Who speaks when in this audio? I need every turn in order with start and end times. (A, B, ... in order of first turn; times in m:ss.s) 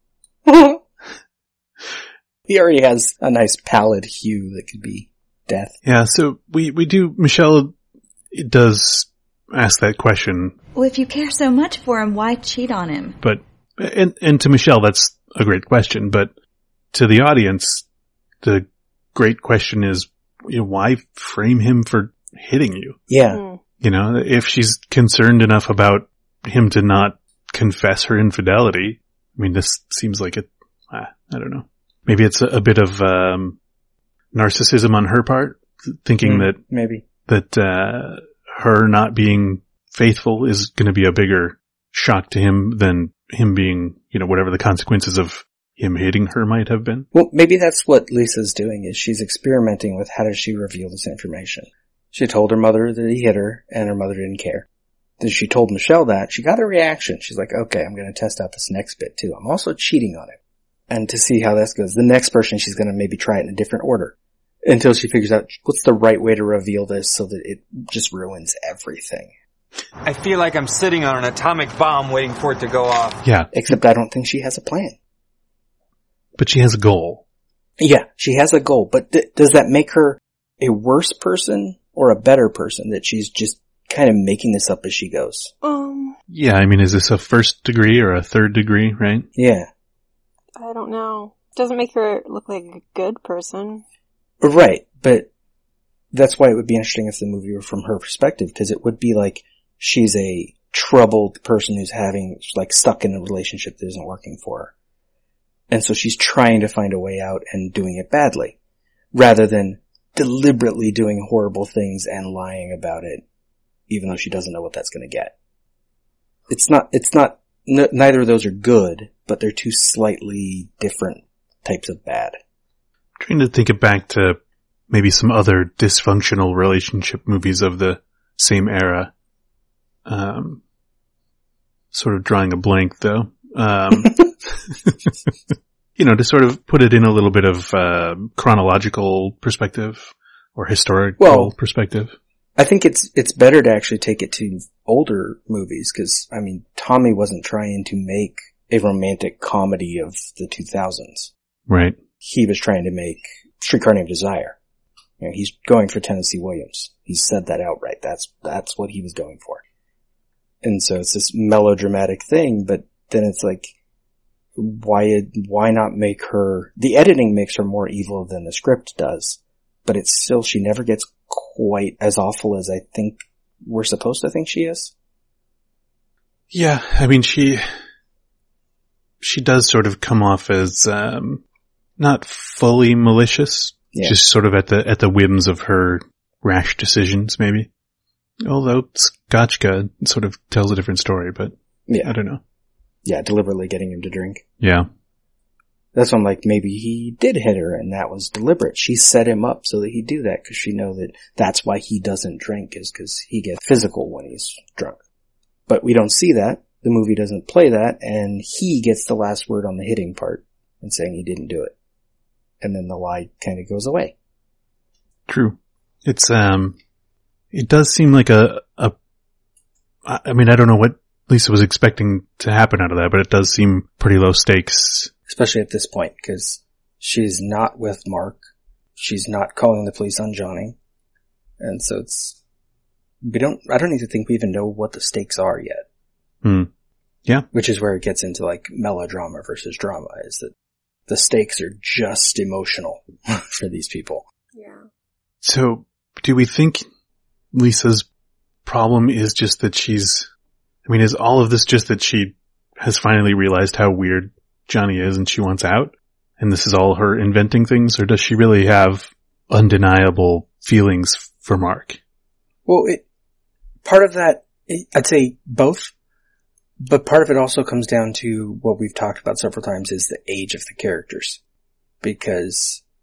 0:00.4-0:00.8 A
0:02.5-0:05.7 A
0:05.8-0:07.7 B
0:08.3-0:10.5 B
0:10.7-0:13.2 C
0:13.2-0:16.3 B
0:16.9-0:17.8 B
0:18.4-0:23.0 B
0:23.1-0:23.4 A
0:23.3-0:23.6 D
0:23.8-0:33.6 B
0:34.3-0:36.6 B
0:36.2-0:37.0 A
0:37.2-0:47.1 B
0:47.1-0:54.6 A
0:55.2-1:00.4 A
1:00.9-1:04.1 A
1:04.6-1:09.3 A
1:10.0-1:13.2 E
1:13.2-1:13.7 B
1:13.5-1:14.9 A
1:16.4-1:17.2 B
1:17.8-1:25.5 A
1:25.6-1:26.1 D
1:26.3-1:29.3 B
1:29.4-1:29.7 A
1:30.6-1:33.8 D
1:34.4-1:35.3 A
1:36.1-1:44.7 A
1:45.7-1:48.6 A
1:49.1-1:53.2 A
1:53.9-1:55.3 A
1:56.5-2:02.4 A
2:03.2-2:04.4 B
2:04.9-2:09.1 B
2:10.0-2:10.6 B
2:11.9-2:15.1 B
2:16.0-2:22.1 B
2:21.2-2:21.5 A
2:22.6-2:31.3 A
2:31.7-2:32.0 B
2:32.2-2:34.6 A
2:35.2-2:39.6 A
2:40.6-2:43.7 A
2:44.6-2:54.9 A
2:56.5-2:57.6 B
2:59.2-3:01.4 B
3:02.0-3:07.7 B
3:08.4-3:12.4 B
3:11.9-3:12.1 A
3:13.0-3:14.4 A
3:14.6-3:14.9 B
3:15.9-3:25.0 A
3:25.7-3:31.7 A
3:32.6-3:34.1 A
3:35.3-3:36.8 B
3:37.5-3:38.9 B
3:40.0-3:45.1 B
3:45.3-3:48.4 A
3:49.0-3:50.8 A
3:51.6-3:52.4 A
3:53.2-3:55.8 A
3:56.4-3:56.7 B
3:57.5-4:00.5 A
4:01.1-4:04.2 A
4:04.5-4:04.8 D
4:05.4-4:06.8 B
4:07.5-4:08.0 B
4:08.6-4:10.3 B
4:10.8-4:22.0 B
4:22.6-4:23.0 A
4:23.8-4:25.9 A
4:26.8-4:31.4 A
4:32.0-4:32.8 A